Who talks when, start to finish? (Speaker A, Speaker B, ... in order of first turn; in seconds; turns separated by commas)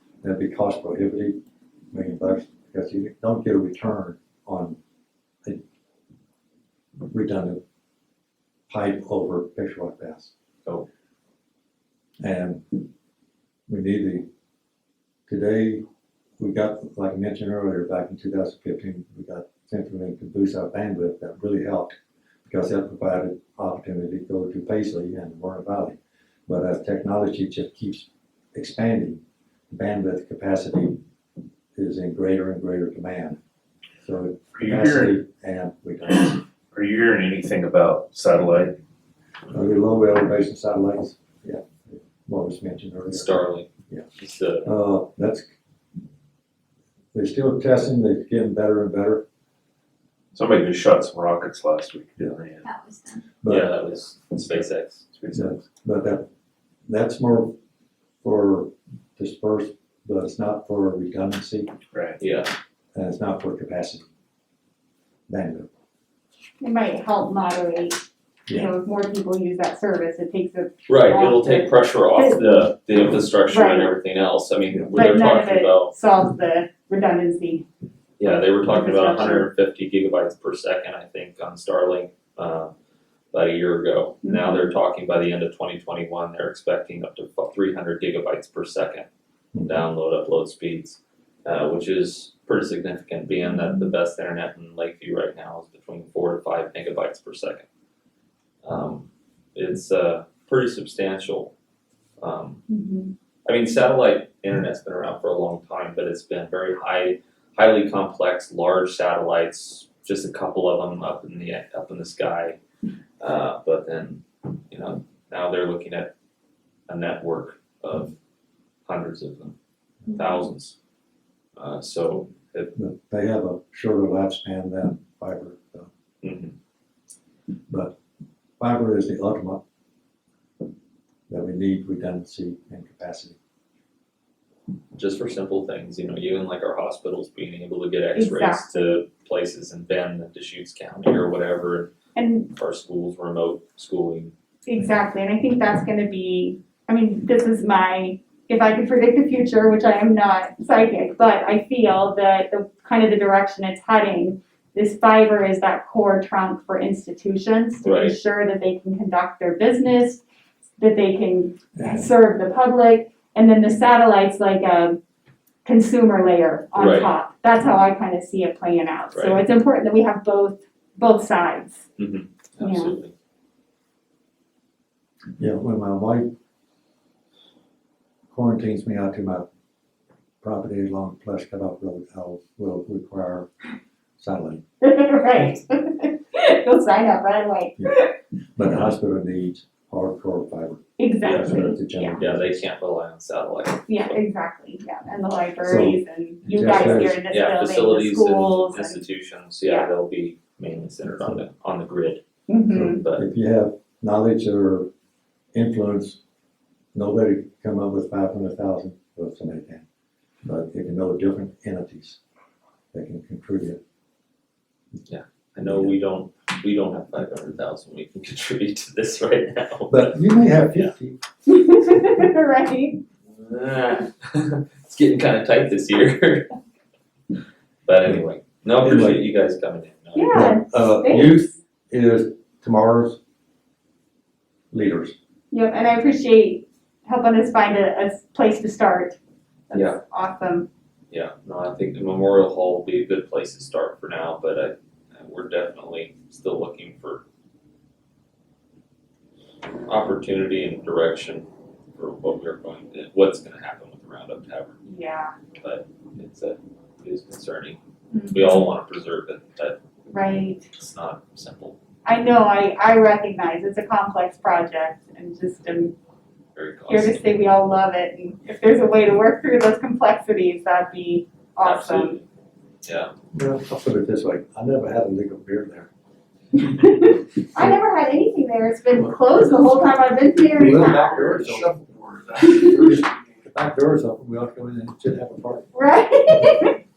Speaker A: 0.2-1.4, Speaker A: 1.9-4.8, Speaker A: 7.1-7.6, Speaker A: 8.7-10.3, Speaker A: 12.2-12.8, Speaker A: 13.7-14.3, Speaker A: 15.3-15.8, Speaker A: 16.4-31.0, Speaker A: 31.8-33.4, Speaker A: 34.0-36.4, Speaker B: 34.5-35.2, Speaker B: 36.7-38.8, Speaker A: 39.5-43.4, Speaker C: 43.1-44.7, Speaker A: 44.6-45.5, Speaker A: 47.1-49.2, Speaker B: 50.3-52.8, Speaker A: 53.4-53.8, Speaker C: 53.5-55.0, Speaker B: 55.1-55.6, Speaker A: 55.3-56.3, Speaker A: 56.9-57.5, Speaker A: 58.2-61.7, Speaker B: 61.9-62.2, Speaker C: 62.2-62.5, Speaker A: 63.0-64.1, Speaker A: 65.3-65.7, Speaker D: 66.6-68.0, Speaker D: 68.5-72.7, Speaker C: 70.9-75.9, Speaker D: 73.5-73.9, Speaker A: 74.7-75.0, Speaker D: 74.9-77.7, Speaker C: 78.2-82.7, Speaker D: 78.3-79.5, Speaker C: 83.3-89.1, Speaker D: 84.2-84.6, Speaker A: 89.5-89.8, Speaker C: 89.7-97.7, Speaker D: 93.4-93.9, Speaker C: 98.6-101.5, Speaker C: 102.2-102.6, Speaker D: 102.7-103.1, Speaker C: 103.5-112.6, Speaker C: 113.2-116.1, Speaker C: 116.9-118.2, Speaker C: 118.9-119.5, Speaker C: 120.1-120.8, Speaker C: 121.6-122.7, Speaker A: 122.8-125.9, Speaker C: 126.2-126.5, Speaker A: 127.7-128.0, Speaker A: 128.6-129.6, Speaker A: 131.3-133.4, Speaker C: 134.9-141.9, Speaker D: 138.2-138.6, Speaker D: 142.2-142.5, Speaker C: 142.5-144.3, Speaker D: 144.7-160.2, Speaker C: 157.8-158.2, Speaker D: 160.8-165.0, Speaker A: 161.8-162.1, Speaker D: 165.7-171.9, Speaker C: 166.8-167.2, Speaker C: 169.1-169.4, Speaker C: 172.0-173.1, Speaker D: 172.6-172.9, Speaker A: 175.4-176.3, Speaker A: 178.3-179.5, Speaker A: 180.4-183.5, Speaker A: 184.2-184.6, Speaker D: 184.8-188.1, Speaker A: 188.6-192.6, Speaker D: 191.0-192.2, Speaker C: 191.2-194.2, Speaker D: 193.9-199.0, Speaker A: 195.6-197.2, Speaker C: 196.5-202.2, Speaker D: 199.6-199.9, Speaker D: 202.5-203.0, Speaker A: 202.7-204.9, Speaker C: 202.9-203.2, Speaker A: 205.5-206.2, Speaker A: 206.9-209.8, Speaker A: 210.4-212.2, Speaker A: 212.9-213.8, Speaker C: 215.1-220.1, Speaker A: 215.6-215.9, Speaker A: 219.9-221.2, Speaker D: 221.5-223.0, Speaker C: 223.3-226.5, Speaker C: 227.9-230.4, Speaker A: 228.8-229.2, Speaker D: 230.1-231.4, Speaker A: 230.3-233.2, Speaker A: 234.7-235.2, Speaker D: 235.5-239.2, Speaker D: 239.7-240.7, Speaker C: 239.7-240.0, Speaker C: 241.1-247.2, Speaker C: 249.9-254.8, Speaker D: 254.9-255.3, Speaker C: 255.6-257.8, Speaker D: 258.1-258.8, Speaker C: 258.3-259.8, Speaker D: 260.1-260.7, Speaker C: 260.8-261.8, Speaker D: 262.1-265.9, Speaker C: 266.6-267.4, Speaker D: 266.9-272.2, Speaker C: 271.6-272.3, Speaker C: 272.8-273.1, Speaker A: 273.3-275.9, Speaker D: 276.7-281.4, Speaker A: 280.6-281.8, Speaker B: 281.2-282.4, Speaker D: 282.6-282.9, Speaker A: 282.7-285.7, Speaker D: 285.7-286.8